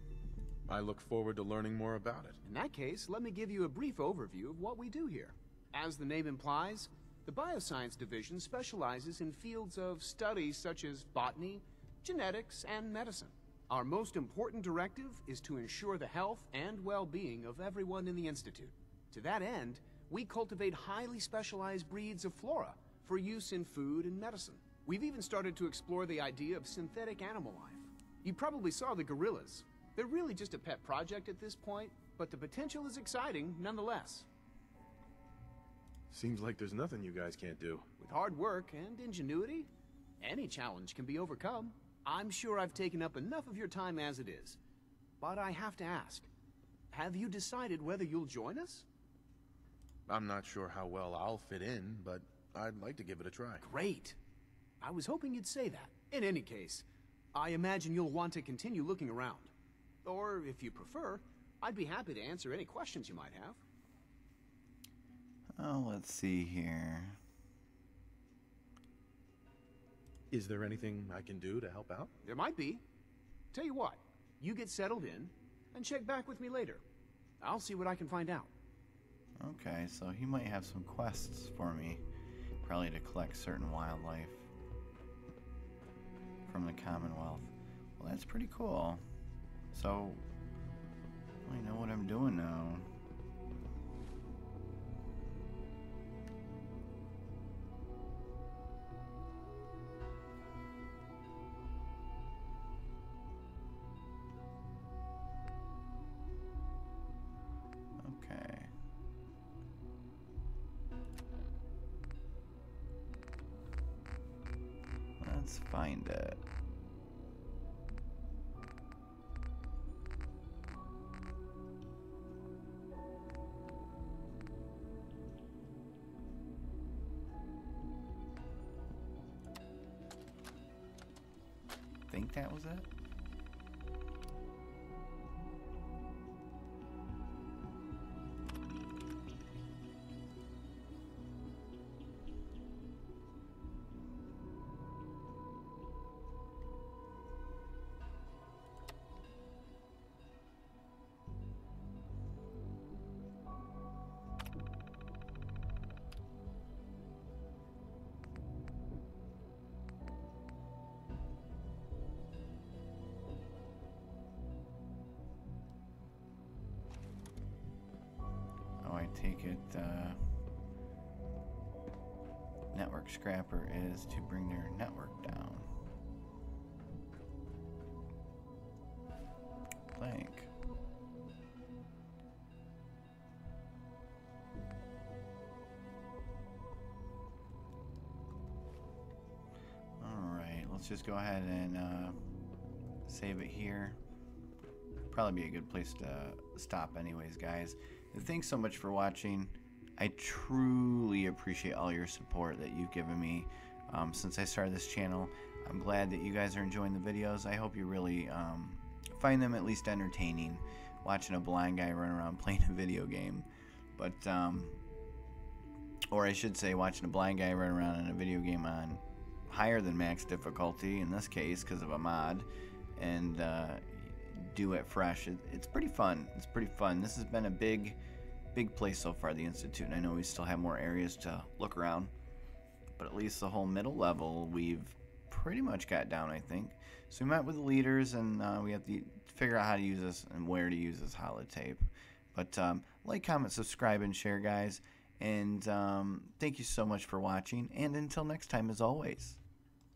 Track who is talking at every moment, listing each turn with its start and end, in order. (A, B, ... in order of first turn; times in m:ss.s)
0:00.7-0:02.4 A
0:02.4-0:34.3 B
0:36.1-0:37.9 A
0:38.0-0:39.7 B
0:40.2-0:44.6 B
0:45.2-0:46.3 B
0:46.9-0:48.8 B
0:50.1-0:53.6 A
0:53.6-0:54.2 B
0:54.8-0:59.5 B
1:00.0-1:03.6 B
1:05.5-1:07.2 C
1:10.3-1:12.1 A
1:12.2-1:12.8 B
1:13.5-1:16.8 B
1:17.4-1:18.5 B
1:19.4-1:22.0 C
1:22.6-1:24.5 C
1:26.4-1:29.0 C
1:29.7-1:30.2 C
1:31.4-1:32.9 C
1:48.0-1:48.7 C
1:55.2-1:56.4 C
2:12.1-2:12.9 C
2:48.8-2:50.4 C
2:52.7-2:55.7 C
2:59.9-3:00.5 C
3:10.0-3:12.2 C
3:13.0-3:14.0 C
3:15.1-3:34.8 C
3:36.1-3:48.0 C
3:48.5-3:52.1 C
3:53.0-4:09.4 C